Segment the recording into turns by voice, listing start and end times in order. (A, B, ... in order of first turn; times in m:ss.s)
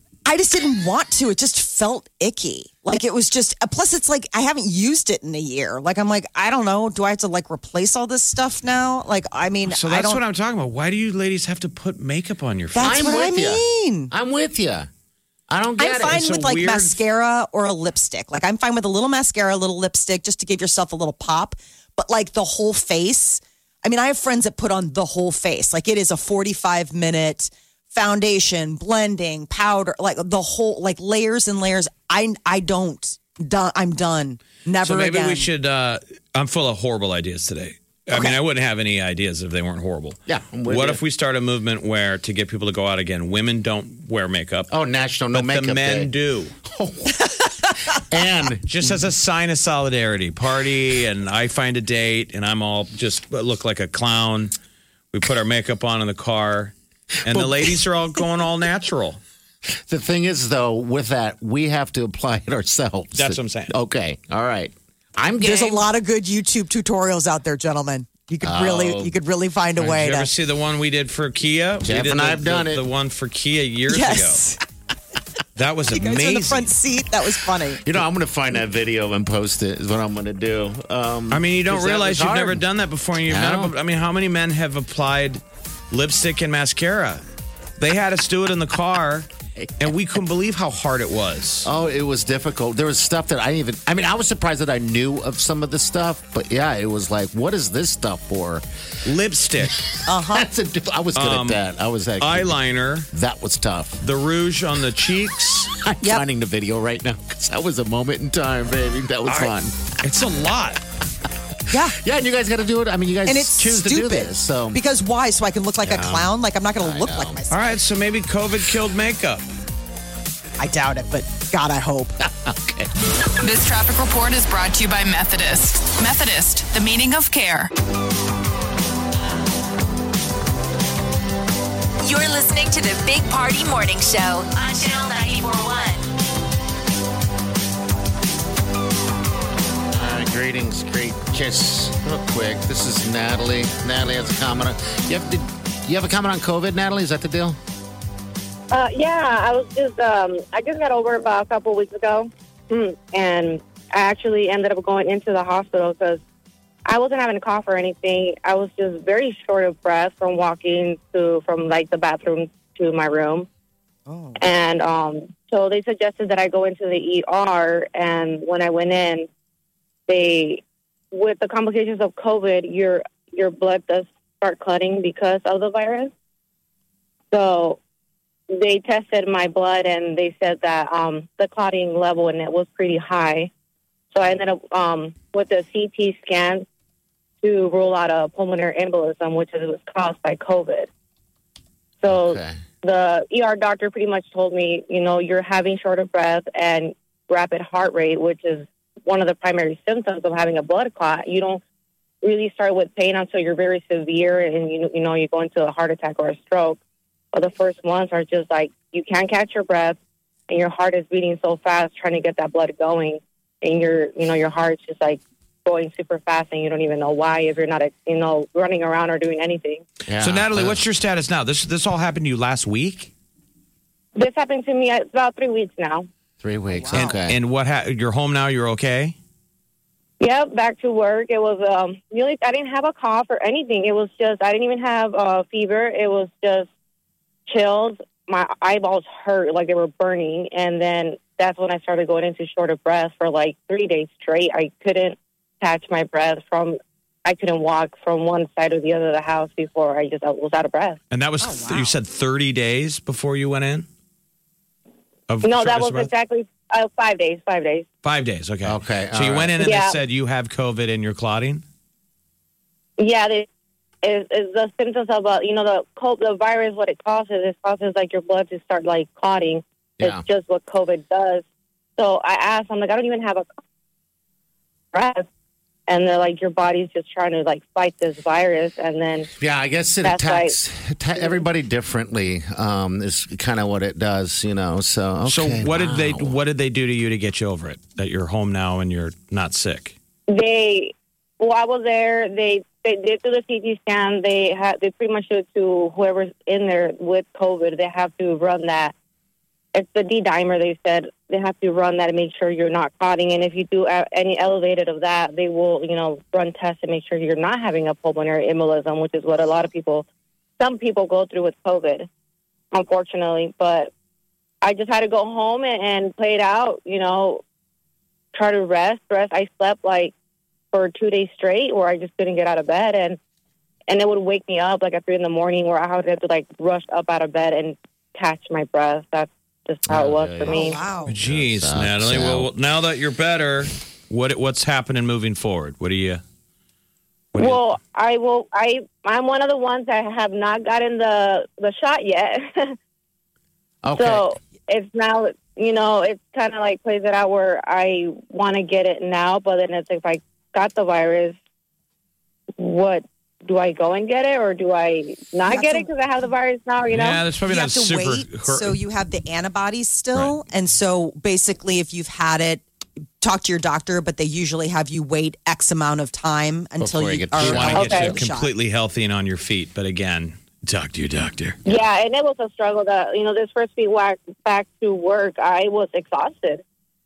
0:00.3-0:10.2 A
0:09.6-0:13.2 B
0:12.7-0:14.1 A
0:12.8-0:14.9 C
0:15.5-0:16.4 C
0:15.8-0:35.5 A
0:16.1-0:17.0 B
0:34.8-0:44.7 B
0:40.3-0:41.0 C
0:44.7-0:46.1 C
0:45.3-0:46.5 B
0:46.6-0:48.9 C
0:48.7-0:54.5 B
0:55.1-0:59.2 B
0:57.3-0:57.8 C
0:59.7-1:05.8 C
1:03.2-1:03.7 B
1:05.4-1:10.3 A
1:08.4-1:09.2 C
1:09.8-1:14.4 B
1:11.8-1:12.9 C
1:13.9-1:14.6 A
1:15.6-1:16.7 B
1:15.9-1:17.8 A
1:17.8-1:22.6 C
1:21.3-1:27.2 B
1:23.3-1:23.8 C
1:27.8-1:29.3 B
1:29.6-1:29.9 C
1:29.8-1:31.7 B
1:31.6-1:38.6 C
1:39.0-1:39.8 B
1:40.1-1:40.5 A
1:40.2-1:42.6 C
1:41.2-1:41.6 B
1:42.2-1:43.1 B
1:43.1-1:44.0 C
1:44.0-1:45.7 B
1:45.8-1:49.8 C
1:49.3-1:50.8 B
1:51.9-1:54.8 C
1:53.3-1:57.8 A
1:55.8-1:57.4 C
1:57.5-1:59.5 B
2:00.6-2:02.2 A
2:02.2-2:02.9 C
2:03.4-2:07.7 D
2:12.0-2:16.1 E
2:19.9-2:27.6 C
2:28.7-2:36.2 F
2:36.9-2:43.5 F
2:44.1-2:44.4 A
2:44.4-2:49.3 F
2:50.1-2:56.1 F
2:57.3-2:57.8 F
2:58.5-3:03.5 F
3:04.1-3:06.6 F
3:07.4-3:10.9 F
3:12.0-3:21.6 F
3:12.1-3:12.6 C
3:22.2-3:26.8 F
3:27.3-3:30.0 F
3:30.5-3:39.8 F
3:40.1-3:40.8 C
3:40.2-3:43.1 B
3:44.2-3:46.1 F
3:46.4-3:47.4 C
3:46.7-3:47.1 A
3:47.0-3:49.2 B
3:50.2-3:56.7 F
3:57.5-4:11.0 F
4:11.1-4:13.9 B
4:11.4-4:12.0 A
4:15.3-4:16.1 B
4:15.4-4:17.9 F
4:18.0-4:21.6 B
4:18.6-4:19.6 C
4:19.6-4:20.0 F
4:23.0-4:23.5 F
4:24.0-4:31.4 F
4:32.0-4:33.5 F
4:34.9-4:35.3 F
4:35.9-4:39.3 F
4:39.4-4:46.4 C
4:40.0-4:40.6 F
4:45.3-4:50.0 B
4:50.3-4:58.9 F
4:59.8-5:10.1 F
5:10.6-5:12.1 F
5:12.7-5:13.9 F
5:14.6-5:17.4 F
5:18.3-5:20.1 F
5:20.7-5:23.2 F
5:23.9-5:30.8 F
5:29.9-5:32.5 C
5:30.5-5:31.1 A
5:31.1-5:36.2 B
5:37.3-5:37.6 B
5:37.4-5:42.8 F
5:43.8-5:44.3 C
5:44.0-5:51.4 F
5:52.6-5:57.2 F
5:55.5-5:55.9 A
5:56.9-5:58.8 B
5:57.5-6:02.6 A
6:03.2-6:08.5 A
6:06.8-6:08.1 C
6:07.4-6:11.6 B
6:07.8-6:08.1 F
6:11.7-6:16.6 F